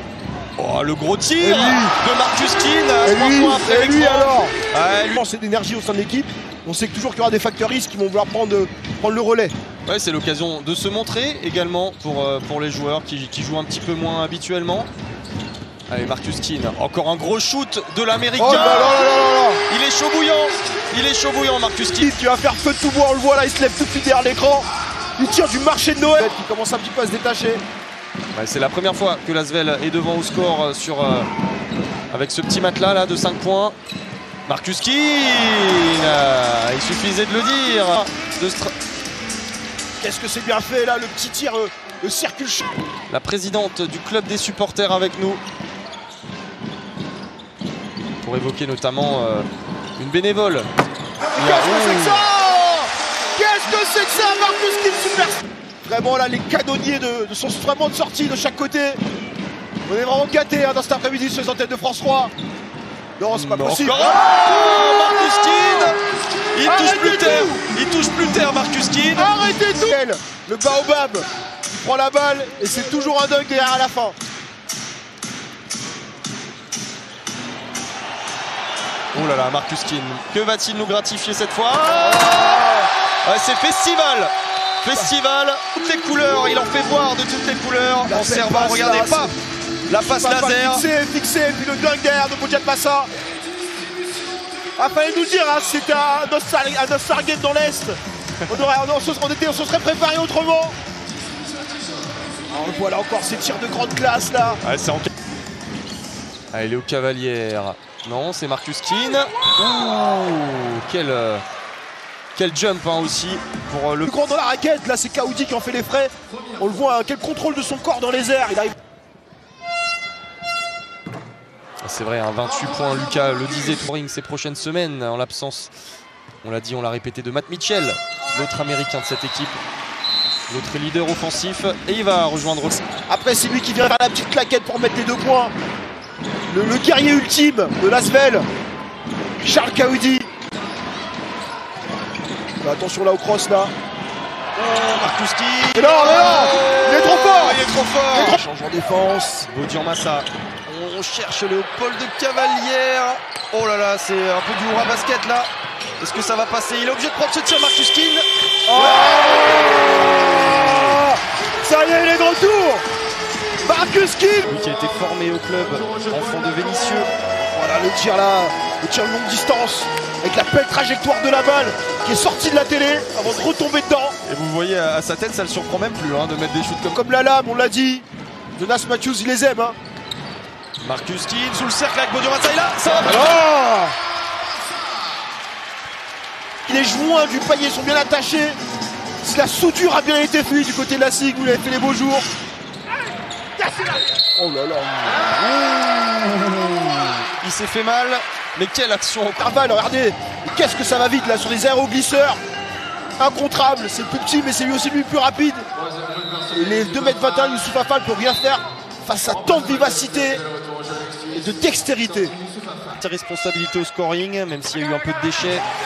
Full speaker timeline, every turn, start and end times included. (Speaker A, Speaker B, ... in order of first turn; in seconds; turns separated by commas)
Speaker A: 0.6-5.2, Speaker B: 1.4-2.0, Speaker B: 3.0-4.5, Speaker B: 5.1-9.5, Speaker A: 9.9-14.9, Speaker A: 15.9-19.0, Speaker B: 18.4-19.6, Speaker A: 19.7-22.1, Speaker B: 22.0-24.7, Speaker B: 25.2-27.6, Speaker A: 28.3-31.3, Speaker A: 32.1-33.8, Speaker A: 34.5-38.7, Speaker B: 40.0-42.7, Speaker A: 43.1-45.4, Speaker A: 48.2-50.7, Speaker B: 51.4-59.0, Speaker A: 51.4-52.2, Speaker B: 59.9-62.3, Speaker B: 63.2-64.2, Speaker A: 63.3-66.0, Speaker A: 66.5-69.3, Speaker B: 66.6-67.6, Speaker B: 69.2-74.2, Speaker A: 79.1-82.6, Speaker B: 81.9-82.9, Speaker A: 83.2-89.3, Speaker B: 88.1-89.3, Speaker A: 89.9-90.8, Speaker B: 90.0-93.1, Speaker B: 94.8-100.8, Speaker B: 102.5-104.6, Speaker A: 104.6-105.1, Speaker A: 106.5-111.4, Speaker A: 112.3-114.1, Speaker B: 114.1-118.8, Speaker A: 121.8-125.7, Speaker A: 126.4-129.6, Speaker A: 130.5-132.8, Speaker B: 133.1-135.5, Speaker B: 136.5-138.5, Speaker B: 139.4-140.3, Speaker B: 142.6-143.7, Speaker A: 144.6-148.4, Speaker B: 145.7-149.5, Speaker A: 149.4-159.3, Speaker B: 158.7-159.9, Speaker A: 160.2-161.0, Speaker B: 160.6-162.8, Speaker B: 163.6-164.5, Speaker A: 164.5-167.1, Speaker B: 167.4-174.2, Speaker A: 174.2-177.0, Speaker B: 176.9-178.1, Speaker B: 178.6-179.8, Speaker A: 180.8-183.4, Speaker B: 182.9-183.9, Speaker B: 186.7-188.6, Speaker B: 189.2-192.3, Speaker B: 194.2-197.0, Speaker A: 197.4-199.5, Speaker B: 199.4-202.4, Speaker B: 203.2-205.7, Speaker B: 206.5-210.4, Speaker B: 211.3-212.4, Speaker A: 212.9-215.6